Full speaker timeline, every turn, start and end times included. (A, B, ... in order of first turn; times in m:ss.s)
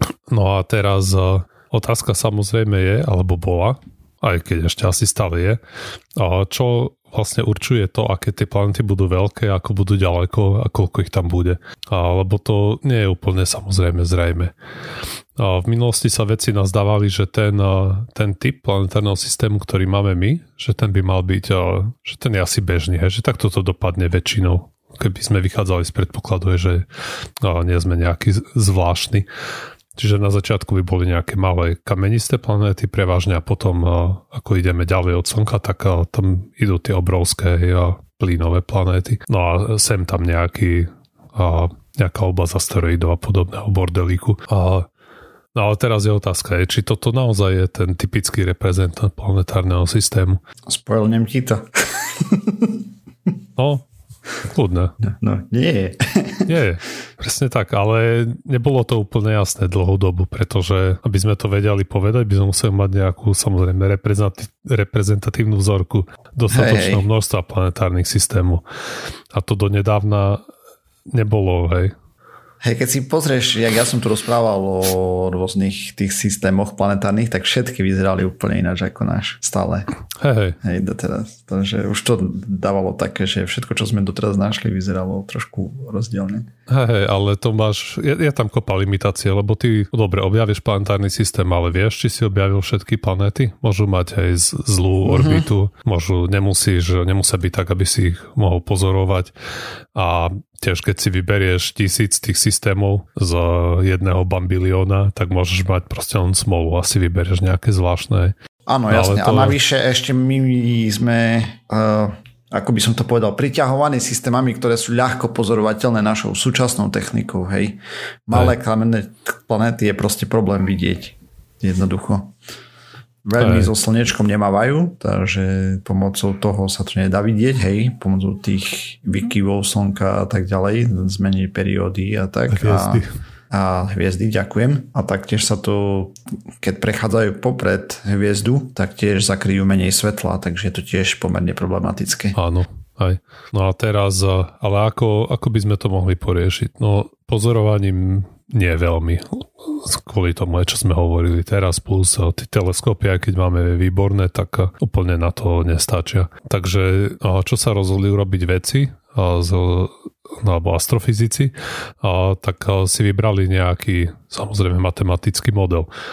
0:00.3-0:05.6 A
0:06.2-0:14.5 A
0:15.4-0:26.8 A
0:27.4-0:29.3 A
0:30.0-0:44.9 A
0:45.5-0:50.4 A
0:50.7-0:52.8 B
0:53.6-0:53.8 A
0:54.4-0:54.9 A
0:55.0-0:56.5 B
0:56.5-1:08.6 A
1:06.5-1:07.0 B
1:09.3-1:10.4 A
1:11.1-1:11.9 A
1:12.6-1:19.9 B
1:20.2-1:20.6 A
1:20.6-1:26.5 B
1:26.7-1:39.3 A
1:35.0-1:35.5 B
1:39.9-1:48.3 A
1:48.6-2:02.3 B
1:48.9-1:49.6 A
2:03.2-2:22.4 B
2:03.4-2:03.7 A
2:12.5-2:13.1 A
2:22.4-2:45.9 A